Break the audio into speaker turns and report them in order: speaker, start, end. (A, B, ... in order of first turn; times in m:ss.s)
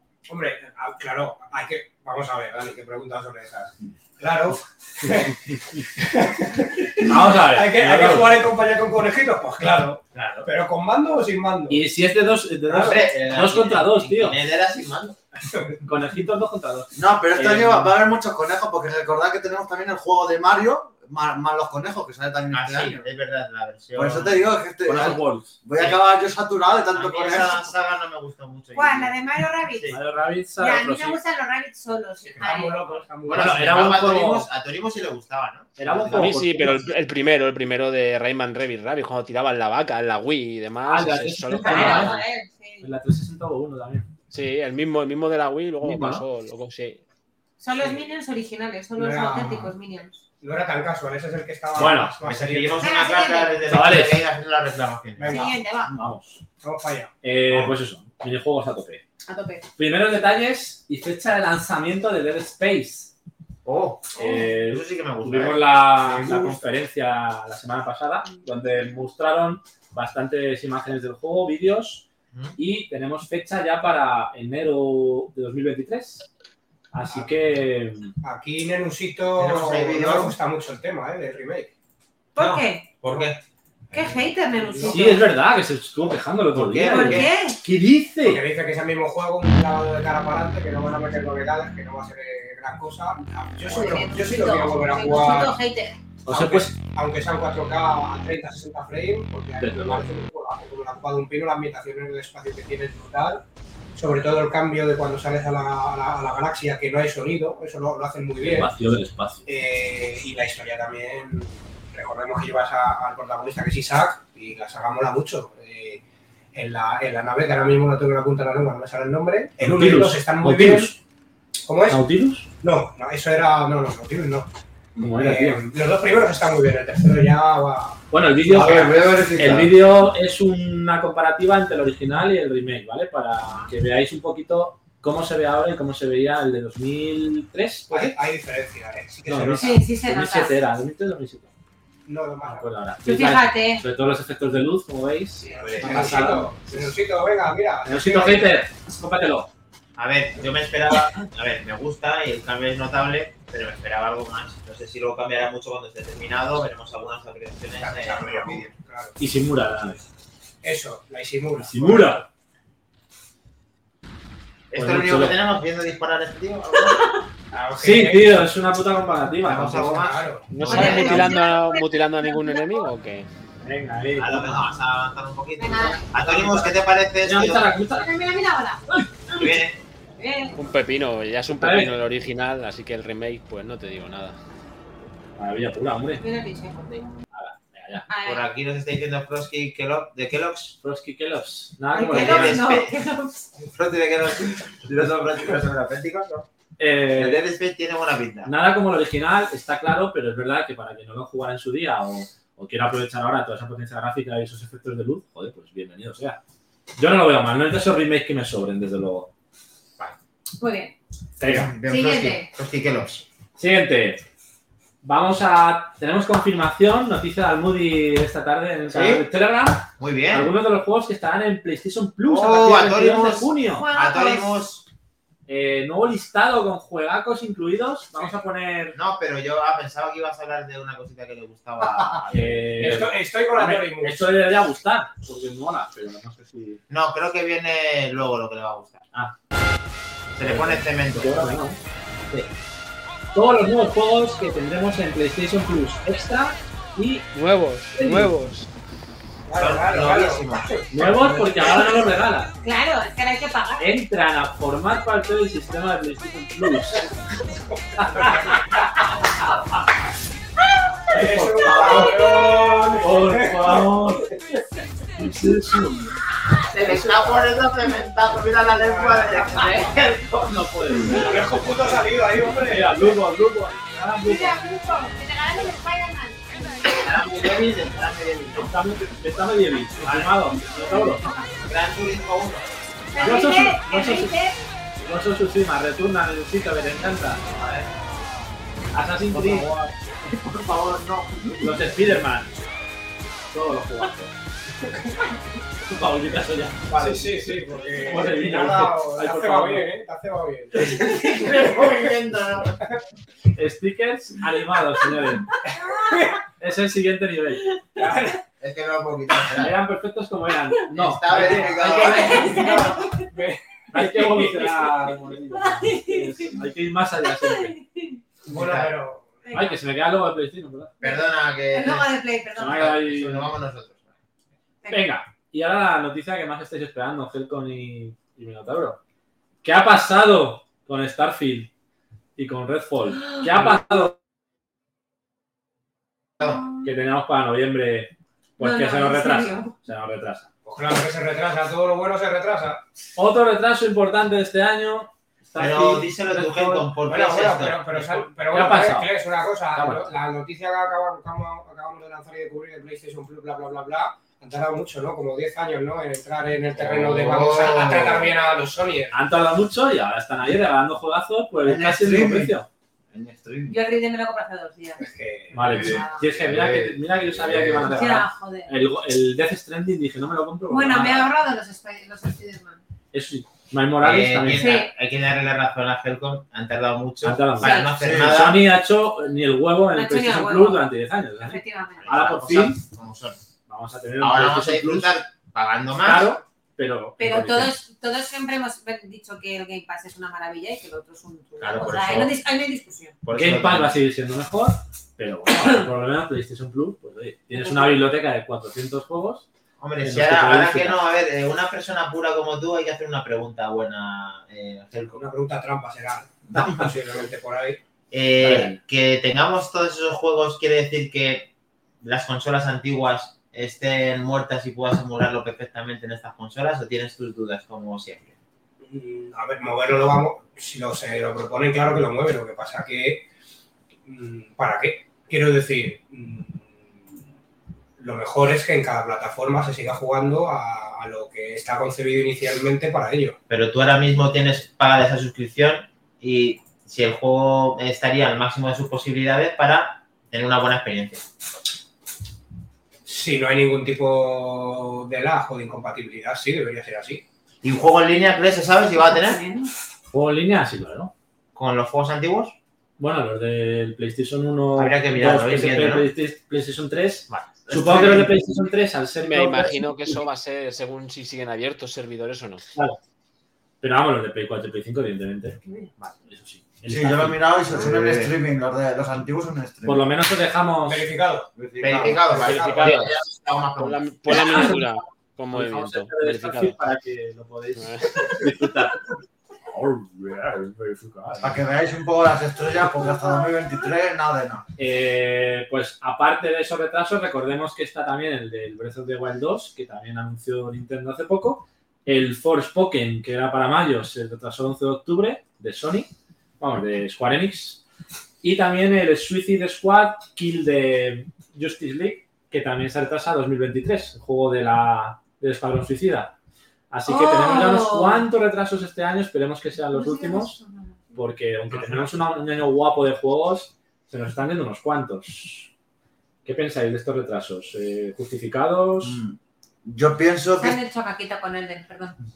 0:00.3-0:11.8 A
0:07.0-0:08.4 B
0:10.1-0:10.4 C
0:11.7-0:14.4 B
0:12.7-0:15.2 C
0:15.8-0:17.9 B
0:16.9-0:23.0 D
0:22.5-0:24.4 C
0:23.9-0:27.7 D
0:24.8-0:25.6 B
0:26.9-0:30.0 C
0:28.7-0:30.0 E
0:29.9-0:31.2 B
0:30.6-0:32.8 E
0:32.4-0:34.0 A
0:33.2-0:36.5 C
0:33.3-0:34.5 B
0:35.8-0:36.9 B
0:36.1-0:42.2 F
0:40.8-0:42.2 B
0:41.6-0:42.9 E
0:42.8-0:44.1 B
0:44.3-0:47.0 F
0:45.8-0:46.2 B
0:47.6-0:50.2 E
0:47.8-0:48.0 A
0:49.0-0:49.7 A
0:50.4-0:53.0 A
0:51.8-0:52.1 B
0:51.8-0:55.5 C
0:52.8-0:53.6 E
0:53.7-0:54.2 B
0:55.2-0:55.6 A
0:55.2-0:55.9 E
0:55.9-0:56.4 B
0:56.6-0:57.1 A
0:57.2-0:59.0 B
0:59.2-0:59.6 E
0:59.8-1:03.1 B
1:03.6-1:05.7 C
1:04.1-1:12.0 B
1:12.6-1:16.2 B
1:16.9-1:18.1 B
1:18.2-1:21.7 A
1:19.4-1:20.3 D
1:19.7-1:20.2 C
1:22.3-1:22.9 E
1:22.4-1:23.4 C
1:23.9-1:25.2 A
1:23.9-1:25.2 E
1:24.9-1:28.4 B
1:26.5-1:27.3 C
1:26.9-1:27.6 E
1:28.2-1:35.6 A
1:33.6-1:36.0 E
1:36.2-1:36.7 B
1:36.3-1:43.4 A
1:39.6-1:40.0 B
1:44.0-1:48.7 A
1:48.4-1:49.4 B
1:49.4-1:56.0 A
1:56.5-2:00.9 A
1:59.6-2:01.0 B
2:01.6-2:02.0 A
2:01.9-2:02.5 B
2:02.6-2:04.5 A
2:05.0-2:05.6 B
2:05.2-2:08.0 A
2:08.1-2:18.2 B
2:08.5-2:09.7 D
2:17.9-2:19.8 A
2:19.3-2:21.5 B
2:19.6-2:20.5 E
2:22.0-2:22.6 A
2:22.4-2:26.9 B
2:23.0-2:23.8 E
2:25.4-2:28.5 A
2:25.6-2:26.1 C
2:27.8-2:29.5 B
2:30.0-2:38.7 C
2:37.8-2:39.2 A
2:39.2-2:40.0 B
2:40.6-2:42.2 A
2:41.6-2:42.2 B
2:44.7-2:47.0 C
2:44.7-2:45.4 B
2:46.8-2:47.2 E
2:47.5-2:48.4 A
2:47.8-2:50.0 B
2:49.4-2:51.3 C
2:49.5-2:51.1 A
2:50.5-2:53.3 F
2:50.6-2:52.9 E
2:50.7-2:51.2 B
2:53.6-2:54.6 B
2:54.2-2:57.7 C
2:55.6-2:56.4 E
2:57.2-2:58.1 B
2:57.9-2:59.6 E
2:59.4-2:59.8 C
3:00.2-3:00.5 E
3:00.6-3:04.4 F
3:01.5-3:01.9 B
3:05.4-3:06.2 B
3:06.2-3:07.1 E
3:07.3-3:08.0 B
3:08.1-3:08.4 E
3:08.2-3:10.8 C
3:10.8-3:12.6 B
3:11.9-3:13.4 E
3:12.1-3:12.9 C
3:13.6-3:16.5 C
3:16.8-3:17.4 B
3:17.1-3:18.5 C
3:18.4-3:26.4 B
3:27.0-3:29.3 B
3:30.6-3:30.9 E
3:31.4-3:31.7 B
3:31.4-3:33.2 C
3:31.9-3:32.5 E
3:33.6-3:34.2 B
3:35.0-3:43.9 B
3:38.9-3:39.2 C
3:40.0-3:40.5 C
3:42.2-3:44.8 C
3:43.7-3:44.5 E
3:45.5-3:49.0 B
3:48.9-3:53.0 C
3:52.3-3:56.8 B
3:52.8-3:54.3 A
3:56.9-3:59.1 C
4:00.3-4:01.5 C
4:00.4-4:01.8 B
4:03.3-4:07.3 B
4:07.3-4:08.7 F
4:07.9-4:08.3 B
4:09.5-4:10.8 A
4:09.6-4:10.8 C
4:10.9-4:12.5 B
4:12.6-4:13.9 E
4:13.8-4:17.1 B
4:18.0-4:18.6 A
4:18.0-4:18.6 B
4:21.1-4:22.3 B
4:21.1-4:24.3 A
4:23.0-4:24.3 B
4:25.2-4:26.1 B
4:26.7-4:30.4 C
4:26.9-4:27.4 B
4:28.8-4:29.7 A
4:30.2-4:34.6 B
4:31.0-4:33.2 A
4:34.2-4:37.0 E
4:36.9-4:38.7 C
4:38.6-4:41.3 B
4:40.0-4:40.4 C
4:40.8-4:41.3 E
4:41.6-4:42.7 C
4:43.1-4:44.6 E
4:43.2-4:44.3 B
4:45.0-4:47.4 B
4:47.5-4:47.9 C
4:48.9-4:49.8 B
4:50.5-4:51.6 C
4:51.6-4:52.6 B
4:53.5-4:54.3 B
4:55.9-4:57.5 B
4:56.9-5:01.9 A
4:58.0-4:59.9 B
5:01.0-5:02.8 C
5:03.5-5:05.5 B
5:06.1-5:06.4 A
5:06.6-5:07.7 B
5:08.0-5:08.4 A
5:08.6-5:09.8 C
5:09.6-5:12.6 B
5:10.9-5:12.8 C
5:11.3-5:14.9 A
5:11.8-5:13.2 E
5:13.9-5:17.8 B
5:15.5-5:16.6 E
5:17.4-5:18.2 E
5:18.5-5:19.3 A
5:18.5-5:18.9 C
5:19.4-5:19.7 E
5:19.5-5:20.9 B
5:21.0-5:22.1 C
5:21.0-5:23.0 E
5:22.6-5:23.5 B
5:22.7-5:24.1 C
5:24.8-5:25.1 E
5:24.9-5:29.0 B
5:29.6-5:31.7 B
5:32.4-5:34.1 B
5:36.8-5:40.5 B
5:38.6-5:39.7 E
5:40.6-5:42.8 A
5:43.2-5:46.9 B
5:45.6-5:48.1 C
5:47.1-5:59.1 A
5:48.0-5:49.1 B
5:49.7-5:50.1 B
5:56.8-5:58.3 C
5:59.1-6:02.7 B
6:01.6-6:02.6 D
6:03.1-6:03.8 D
6:03.7-6:05.0 E
6:05.0-6:06.0 A
6:05.5-6:11.3 B
6:05.8-6:06.2 E
6:05.9-6:08.0 D
6:07.8-6:08.7 E
6:10.7-6:12.8 E
6:13.1-6:14.7 B
6:14.0-6:18.6 C
6:14.6-6:14.9 E
6:17.2-6:22.8 B
6:17.6-6:17.9 E
6:18.0-6:18.5 D
6:19.9-6:20.8 E
6:21.4-6:22.1 E
6:22.0-6:23.4 C
6:23.7-6:25.1 B
6:24.2-6:26.3 C
6:26.0-6:27.8 B
6:27.2-6:33.2 E
6:31.6-6:32.3 C
6:33.2-6:34.0 C
6:33.3-6:39.4 B
6:37.5-6:38.0 E
6:39.8-6:45.2 C
6:40.0-6:41.0 B
6:45.1-6:47.8 A
6:48.1-6:51.5 C
6:48.4-6:48.8 B
6:52.0-6:58.3 C
6:58.8-7:03.2 A
7:04.0-7:06.8 A
7:08.0-7:13.4 A
7:13.5-7:21.2 C
7:23.0-7:27.2 A
7:27.6-7:29.4 C
7:28.9-7:29.7 E
7:30.1-7:31.1 B
7:31.5-7:32.6 C
7:33.0-7:40.2 B
7:34.8-7:36.1 C
7:37.7-7:38.3 D
7:39.2-7:42.6 F
7:43.8-7:47.9 B
7:46.8-7:50.1 D
7:49.8-7:51.1 B
7:50.8-7:53.0 A
7:51.6-7:52.3 D
7:51.8-7:54.7 C
7:52.4-7:53.2 F
7:53.8-7:56.8 F
7:54.3-7:54.8 B
7:55.5-7:59.0 B
7:57.8-7:58.1 F
7:59.7-8:01.6 B
8:01.4-8:04.6 D
8:04.8-8:17.8 B
8:18.4-8:26.3 B
8:26.9-8:30.6 B
8:27.0-8:28.2 E
8:29.9-8:31.2 E
8:31.1-8:35.7 B
8:36.4-8:39.2 B
8:39.0-8:40.8 D
8:40.6-8:42.2 E